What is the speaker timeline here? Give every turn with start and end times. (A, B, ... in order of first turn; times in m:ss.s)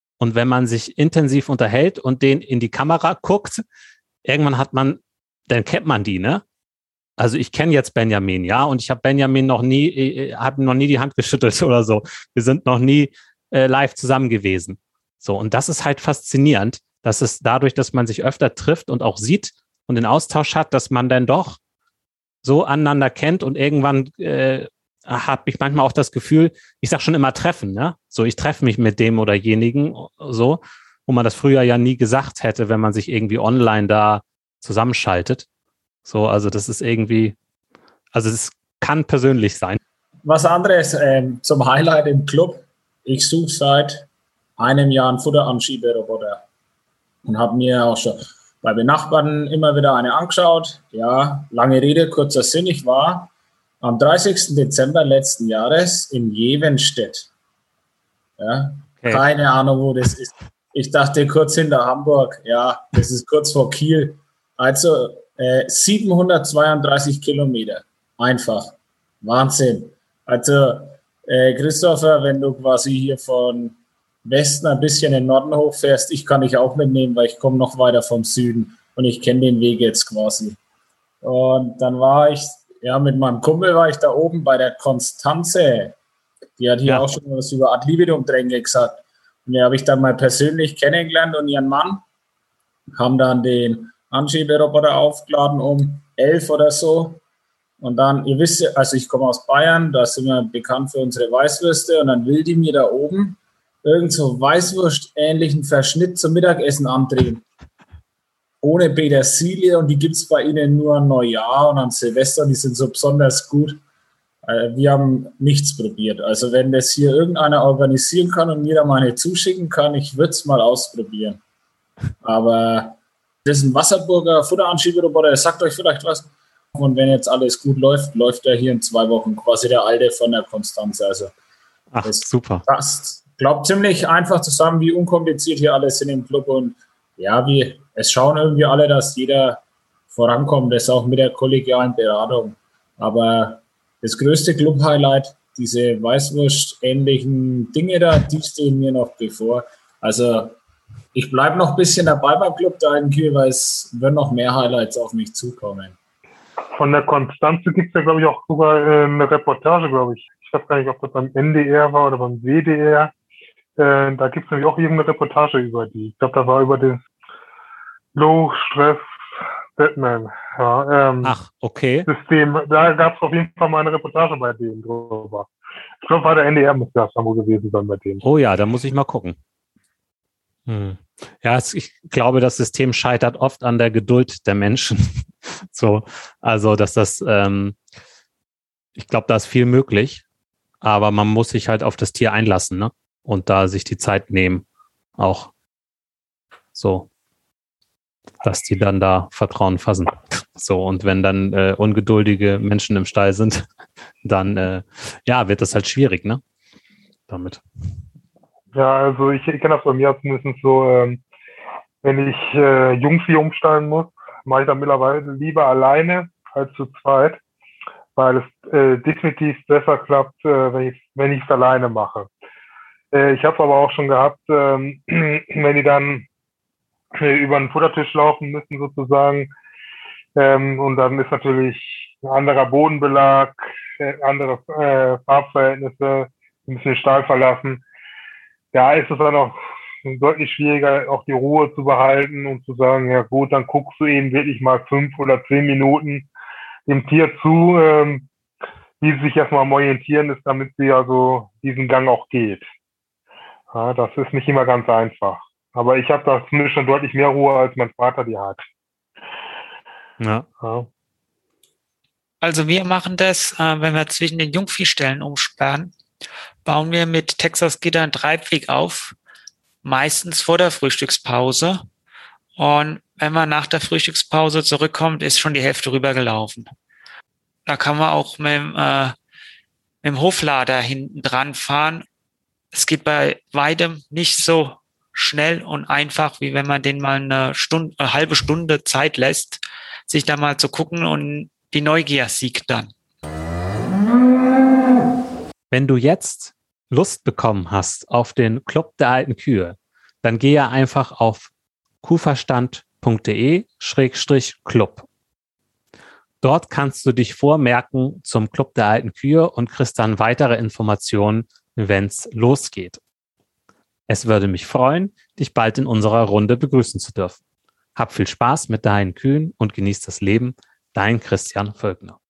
0:00.2-0:03.6 A
0:04.3-0:06.4 A
0:07.2-0:21.6 A
0:22.4-0:35.5 A
0:36.0-0:37.4 A
0:38.1-0:39.8 A
0:40.2-0:46.4 B
0:47.2-0:57.3 B
0:58.4-1:20.6 B
1:21.2-1:26.0 B
1:26.6-1:32.0 B
1:26.9-1:27.1 A
1:32.9-1:37.2 B
1:37.8-1:47.4 B
1:48.6-1:53.8 B
1:54.4-2:01.4 B
2:02.2-2:11.3 B
2:11.9-2:12.6 A
2:12.0-2:30.6 B
2:31.1-2:36.0 B
2:36.8-2:43.1 C
2:43.8-2:47.0 C
2:48.1-2:49.1 C
2:49.8-2:51.4 C
2:51.2-2:52.1 A
2:52.1-2:55.5 C
2:56.0-2:58.2 C
2:58.2-2:59.4 A
3:00.7-3:07.8 A
3:09.0-3:10.2 A
3:10.8-3:14.6 A
3:15.2-3:15.5 A
3:16.8-3:17.1 A
3:18.4-3:23.7 A
3:24.2-3:26.4 A
3:27.3-3:27.6 A
3:28.7-3:31.2 C
3:32.0-3:37.4 C
3:38.2-3:42.3 C
3:43.1-3:46.3 C
3:47.2-3:49.5 C
3:50.4-3:57.8 C
3:58.7-4:06.3 C
4:06.9-4:08.3 C
4:09.0-4:12.7 C
4:13.7-4:18.6 C
4:20.2-4:20.5 A
4:20.6-4:20.9 C
4:22.4-4:25.9 D
4:26.7-4:29.2 D
4:29.8-4:31.8 D
4:32.6-4:36.7 D
4:37.7-4:39.2 D
4:40.0-4:42.0 D
4:42.7-4:52.9 D
4:55.7-5:01.5 A
5:02.0-5:05.1 A
5:06.4-5:13.0 A
5:14.1-5:17.4 A
5:18.0-5:22.2 A